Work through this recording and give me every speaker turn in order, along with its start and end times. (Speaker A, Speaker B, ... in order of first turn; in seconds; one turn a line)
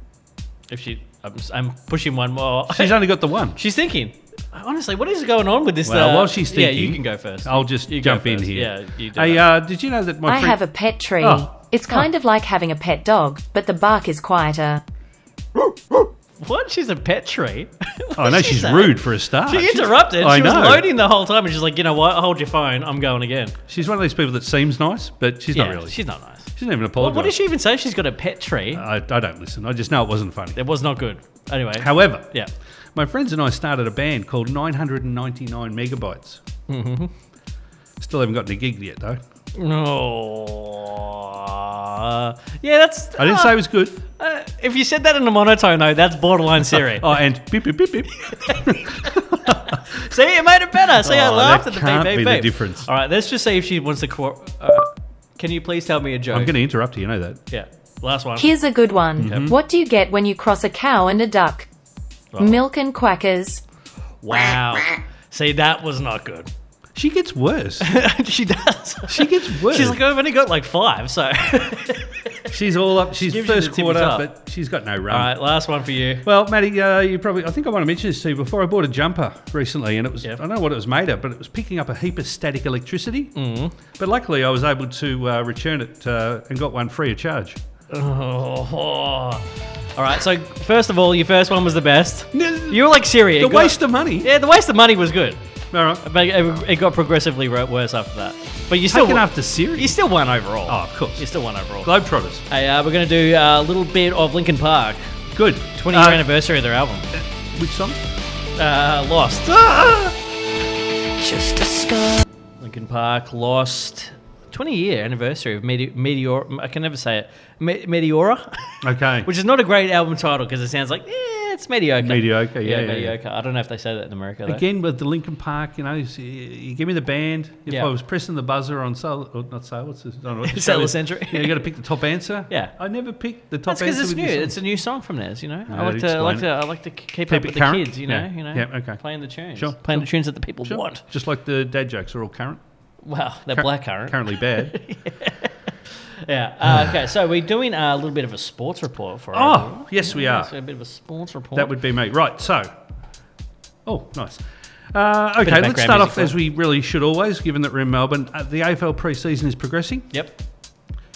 Speaker A: 0.7-9.5
Speaker B: 2.7-3.6
Speaker B: 5.8-10.6
Speaker C: 10.3-14.8
Speaker B: 11.2-11.5
Speaker A: 15.6-23.6
Speaker B: 18.2-20.9
Speaker B: 23.7-26.0
Speaker A: 25.5-28.8
Speaker B: 26.5-27.4
Speaker B: 28.7-30.6
Speaker A: 30.6-32.5
Speaker B: 31.8-32.3
Speaker B: 33.0-36.4
Speaker A: 36.7-37.1
Speaker B: 38.0-39.2
Speaker A: 39.5-47.2
Speaker B: 43.2-44.0
Speaker B: 46.7-50.0
Speaker A: 48.2-56.6
Speaker B: 51.0-52.9
Speaker B: 56.3-57.4
Speaker A: 57.5-58.5
Speaker C: 58.4-61.7
Speaker B: 59.2-59.6
Speaker A: 59.2-59.5
Speaker A: 62.3-62.6
Speaker C: 62.4-63.6
Speaker A: 64.2-66.5
Speaker B: 67.0-67.9
Speaker A: 67.8-72.5
Speaker B: 69.1-70.0
Speaker B: 72.5-75.3
Speaker A: 73.1-74.3
Speaker A: 75.1-76.2
Speaker B: 76.2-83.3
Speaker A: 83.3-83.8
Speaker B: 83.9-87.6
Speaker A: 87.9-95.4
Speaker B: 92.3-94.3
Speaker B: 95.7-96.0
Speaker A: 96.0-101.9
Speaker B: 98.9-100.0
Speaker B: 100.7-101.3
Speaker B: 101.8-102.5
Speaker A: 102.5-105.1
Speaker B: 105.3-106.3
Speaker A: 105.8-107.1
Speaker B: 107.1-108.0
Speaker A: 108.6-110.2
Speaker A: 111.1-124.6
Speaker B: 118.8-119.3
Speaker B: 122.0-123.2
Speaker B: 124.5-134.6
Speaker A: 130.4-131.7
Speaker A: 132.5-132.7
Speaker A: 133.7-141.0
Speaker B: 135.7-136.5
Speaker B: 137.3-140.1
Speaker B: 140.6-142.6
Speaker A: 143.0-151.7
Speaker B: 143.5-144.8
Speaker B: 146.7-146.9
Speaker B: 149.3-150.5
Speaker B: 151.6-152.7
Speaker B: 153.9-160.1
Speaker A: 155.4-156.3
Speaker A: 160.1-160.4